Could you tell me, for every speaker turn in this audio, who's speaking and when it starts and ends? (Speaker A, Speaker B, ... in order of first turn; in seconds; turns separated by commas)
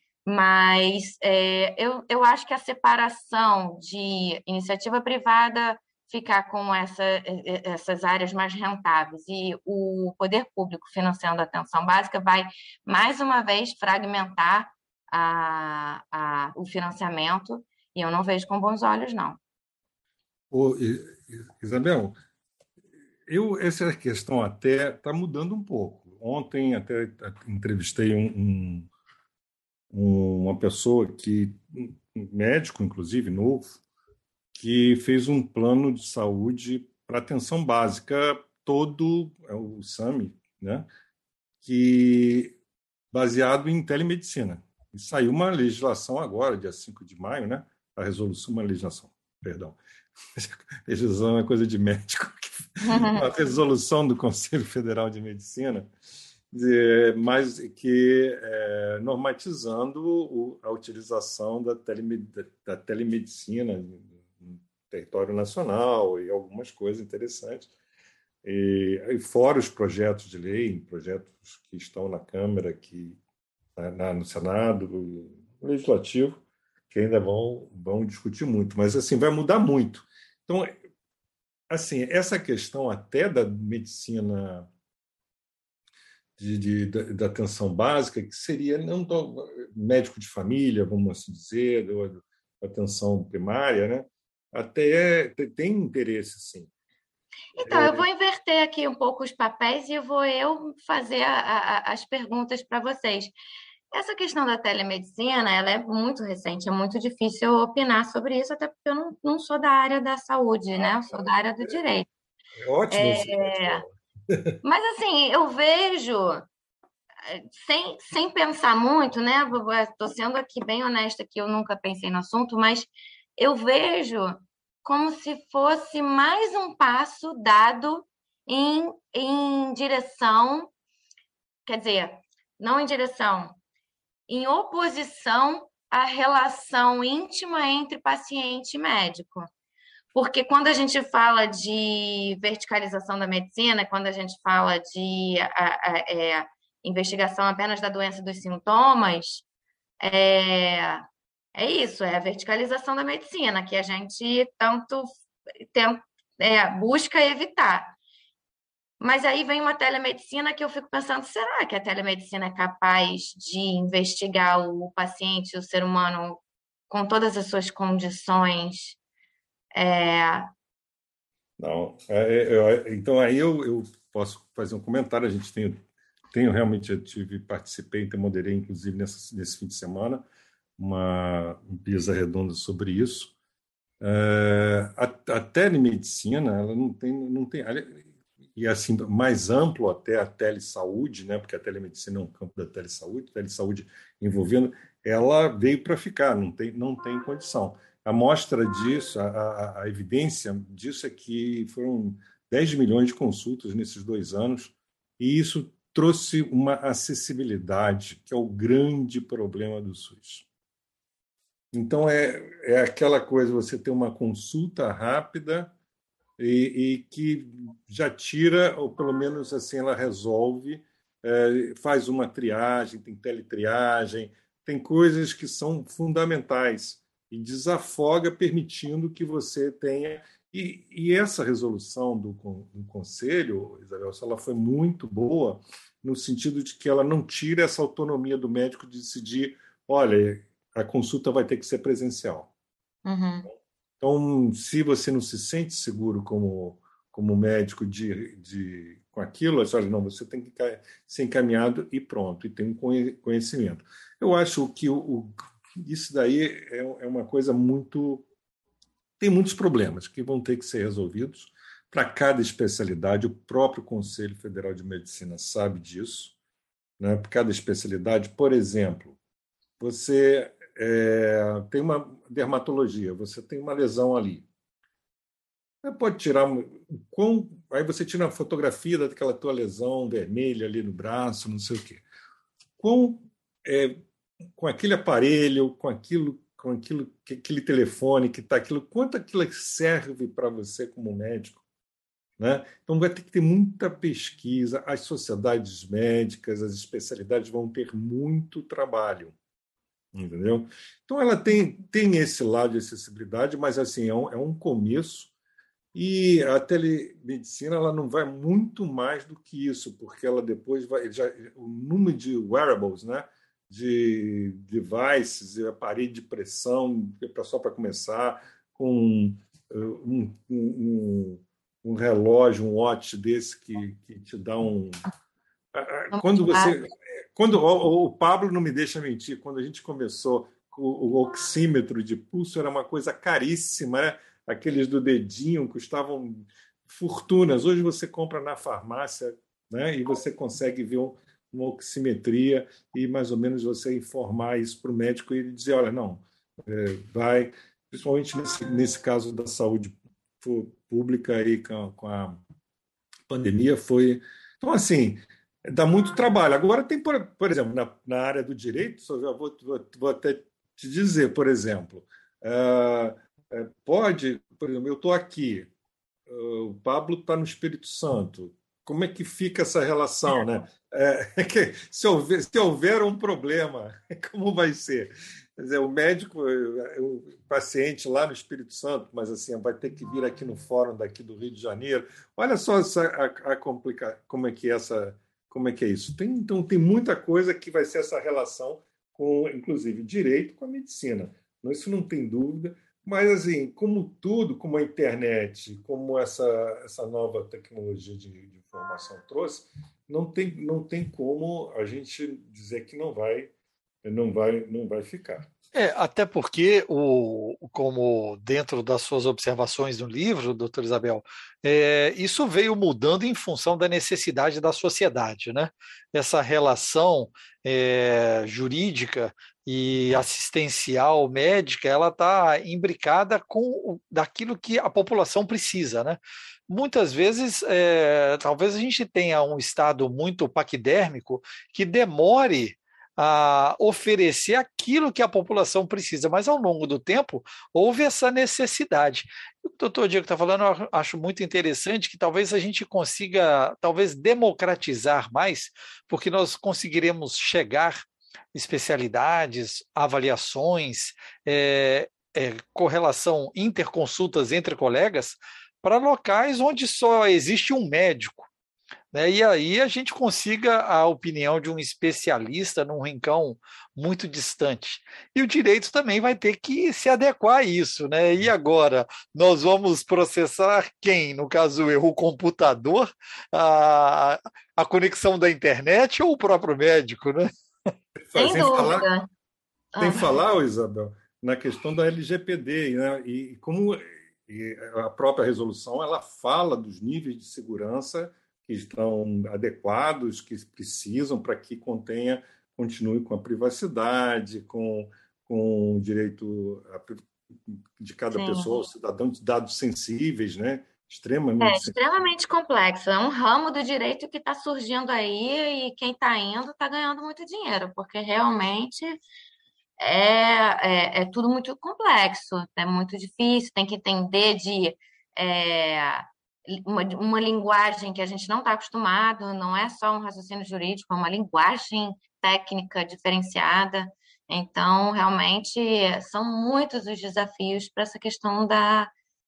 Speaker A: 0.3-19.4, Speaker B: 20.5-22.1, Speaker B: 23.3-28.9, Speaker B: 29.9-33.8, Speaker B: 34.5-40.9, Speaker B: 41.6-42.5, Speaker B: 43.1-49.8, Speaker B: 50.4-55.9, Speaker A: 52.8-53.3, Speaker B: 56.5-67.7, Speaker B: 68.4-73.2, Speaker B: 73.8-76.4, Speaker B: 76.9-80.8, Speaker B: 81.7-84.7, Speaker B: 86.4-96.7, Speaker A: 97.6-103.3, Speaker B: 97.6-98.0, Speaker A: 103.9-112.1, Speaker B: 112.6-114.6, Speaker A: 112.9-113.8, Speaker A: 114.6-116.4, Speaker A: 117.3-130.7, Speaker A: 131.7-133.6, Speaker A: 134.3-139.5, Speaker A: 140.1-149.4, Speaker A: 150.0-151.0, Speaker A: 151.6-155.1, Speaker A: 155.7-157.9, Speaker A: 159.0-169.0, Speaker A: 169.8-170.5, Speaker B: 171.6-175.8, Speaker B: 176.3-180.2, Speaker B: 180.8-183.3, Speaker B: 184.0-210.5, Speaker B: 211.7-215.7, Speaker B: 216.4-242.5, Speaker A: 243.1-243.5, Speaker B: 244.0-258.3, Speaker B: 259.2-266.4, Speaker B: 267.0-269.2, Speaker B: 269.8-274.5, Speaker B: 275.8-282.1, Speaker B: 282.8-284.0, Speaker B: 284.6-291.6, Speaker B: 292.4-299.4, Speaker B: 300.1-305.3, Speaker B: 305.9-325.0, Speaker B: 325.7-352.4, Speaker A: 326.1-326.8, Speaker B: 353.3-365.7, Speaker B: 366.3-403.5, Speaker B: 404.0-405.5, Speaker C: 405.8-458.5, Speaker C: 459.1-477.5, Speaker B: 478.2-479.1, Speaker A: 478.4-479.3, Speaker A: 479.9-480.4, Speaker B: 480.0-501.9, Speaker A: 498.3-498.8, Speaker A: 501.6-509.2, Speaker A: 510.0-529.1